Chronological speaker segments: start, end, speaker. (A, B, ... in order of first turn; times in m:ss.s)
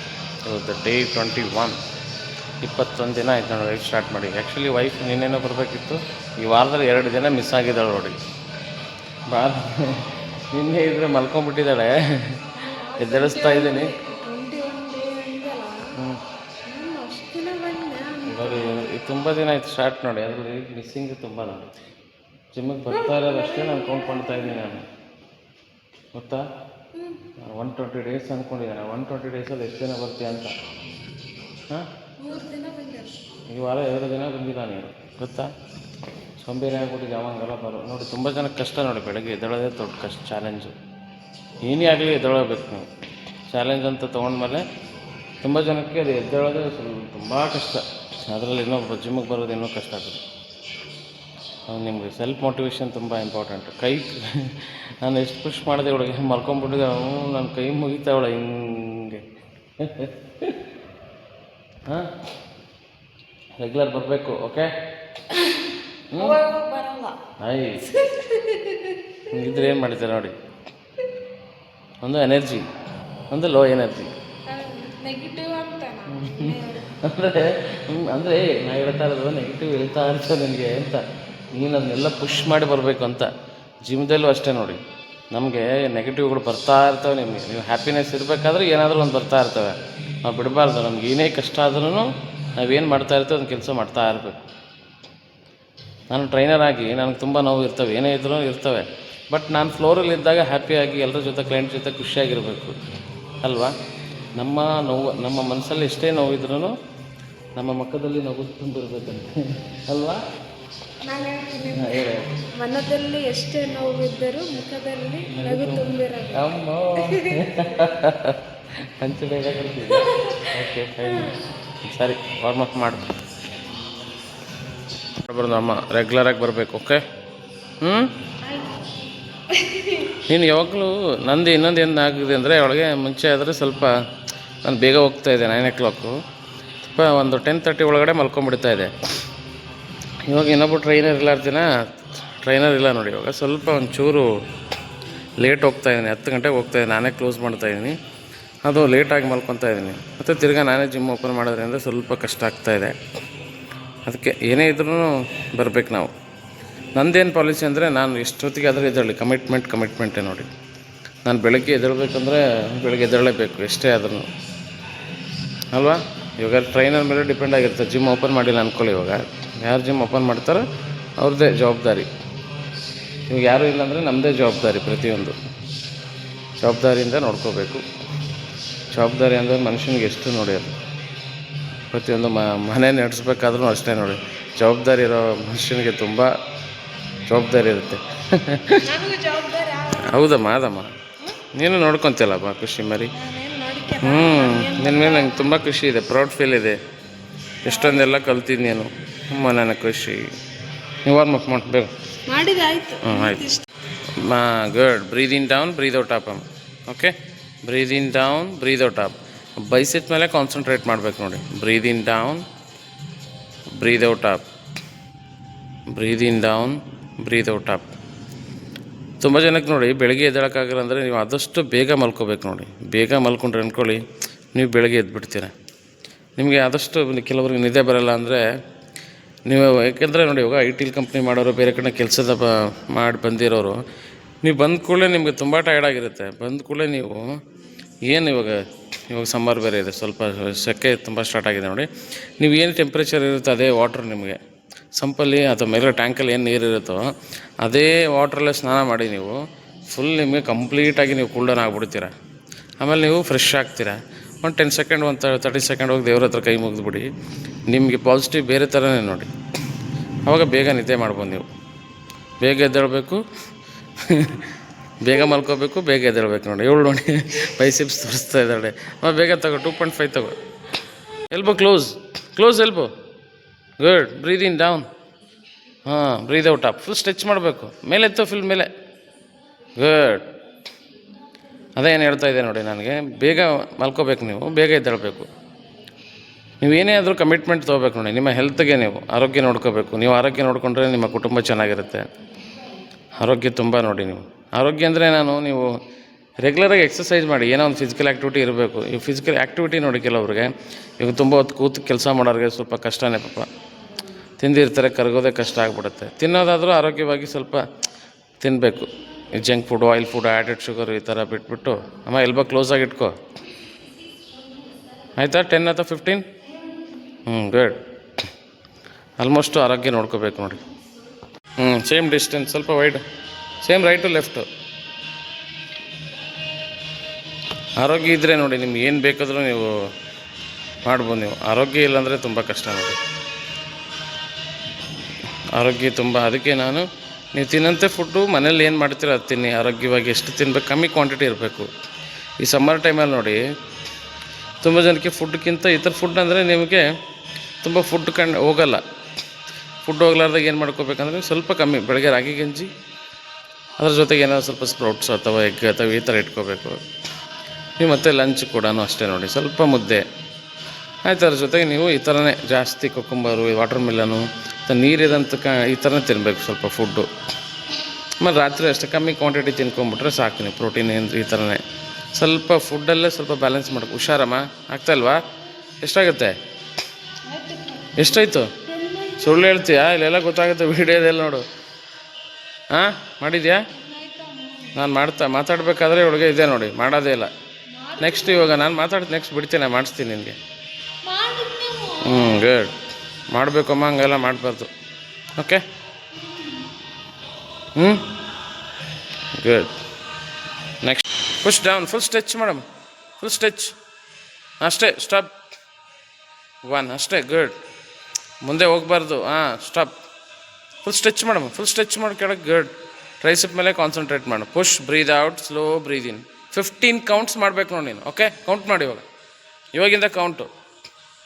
0:00.4-0:01.8 A
0:02.6-0:08.2 A
0:09.3-0:12.4 A
0:12.6-0:16.0 B
0:13.0-0:13.9 A
0:16.6-0:18.9 B
0:18.3-0:21.7 A
0:22.5-0:24.8 A
0:22.9-0:24.7 B
0:26.1-0:26.4 A
0:26.9-0:27.2 B
0:27.4-0:30.5 A
0:32.2-0:33.2 B
0:33.5-0:35.5 A
0:36.4-0:40.7 A
0:41.6-0:42.9 A
0:43.5-0:44.6 A
0:45.4-0:50.2 A
0:51.7-0:59.2 A
0:59.8-1:00.6 A
1:01.9-1:02.1 A
1:03.6-1:04.7 A
1:06.1-1:06.4 A
1:06.1-1:07.2 B
1:07.4-1:07.9 A
1:07.9-1:09.5 B
1:09.3-1:10.3 A
1:12.0-1:12.7 A
1:13.3-1:14.1 A
1:14.5-1:16.9 B
1:16.1-1:34.4 A
1:36.1-1:42.8 A
1:43.4-1:43.7 A
1:44.3-1:46.8 A
1:47.6-1:50.2 A
1:51.0-1:57.8 B
1:51.7-1:52.3 A
1:55.3-2:03.1 A
1:59.9-2:01.4 B
2:05.2-2:07.0 A
2:07.8-2:08.1 A
2:08.4-2:08.8 B
2:09.5-2:10.2 B
2:10.3-2:14.0 A
2:14.6-2:16.2 A
2:16.8-2:18.9 A
2:20.2-2:21.8 A
2:22.4-2:24.3 A
2:25.4-2:28.0 A
2:28.6-2:33.0 A
2:34.0-2:36.1 A
2:37.0-2:40.5 A
2:41.2-2:44.3 A
2:45.7-2:52.1 A
2:53.3-2:55.4 A
2:56.6-2:57.8 A
2:58.9-3:00.8 A
3:01.9-3:06.3 A
3:07.3-3:08.9 A
3:08.8-3:10.3 B
3:10.0-3:10.9 A
3:11.5-3:13.1 A
3:13.1-3:15.4 B
3:14.0-3:16.8 A
3:17.6-3:20.3 A
3:17.6-3:18.1 B
3:21.0-3:21.9 A
3:22.2-3:23.6 B
3:23.0-3:23.4 A
3:24.2-3:32.4 A
3:33.7-3:34.4 A
3:35.9-3:37.9 A
3:39.2-3:44.0 A
3:44.5-3:45.5 A
3:46.4-3:48.4 A
3:49.5-3:53.8 A
3:54.4-3:57.4 A
3:58.0-4:04.4 A
4:04.9-4:07.1 A
4:07.6-4:12.1 A
4:12.8-4:17.1 A
4:17.7-4:19.3 A
4:20.2-4:21.4 A
4:22.4-4:23.2 A
4:24.0-4:24.4 A
4:25.0-4:30.4 A
4:31.3-4:32.9 A
4:33.8-4:34.9 A
4:35.8-4:38.7 A
4:39.8-4:40.3 A
4:41.8-4:45.3 A
4:46.6-4:52.1 A
4:53.1-4:55.7 A
4:56.4-5:03.5 A
5:04.4-5:07.6 A
5:08.4-5:13.2 A
5:15.2-5:16.3 A
5:17.2-5:17.8 A
5:19.2-5:20.6 A
5:21.6-5:23.0 A
5:23.6-5:24.5 A
5:27.8-5:29.9 A
5:30.8-5:33.0 A
5:35.5-5:41.7 A
5:42.4-5:43.4 A
5:44.6-5:46.8 A
5:47.6-5:48.8 A
5:49.8-5:52.7 A
5:53.8-5:56.8 A
5:57.8-6:00.0 A
6:01.0-6:07.1 A
6:08.2-6:11.6 A
6:12.1-6:15.2 A
6:15.8-6:16.4 A
6:17.2-6:19.4 B
6:17.9-6:18.5 A
6:19.2-6:21.4 A
6:22.7-6:23.7 A
6:23.7-6:24.8 B
6:24.7-6:27.3 A
6:27.7-6:28.6 B
6:28.0-6:30.4 A
6:31.0-6:32.5 B
6:32.0-6:32.7 A
6:33.3-6:34.7 A
6:35.4-6:35.6 A
6:36.1-6:36.7 B
6:37.7-6:38.1 A
6:39.3-6:39.7 A
6:40.8-6:42.6 A
6:43.2-6:43.7 A
6:44.6-6:45.3 A
6:46.6-6:47.6 A
6:48.4-6:50.0 A
6:50.8-6:59.0 A
6:59.7-7:00.5 A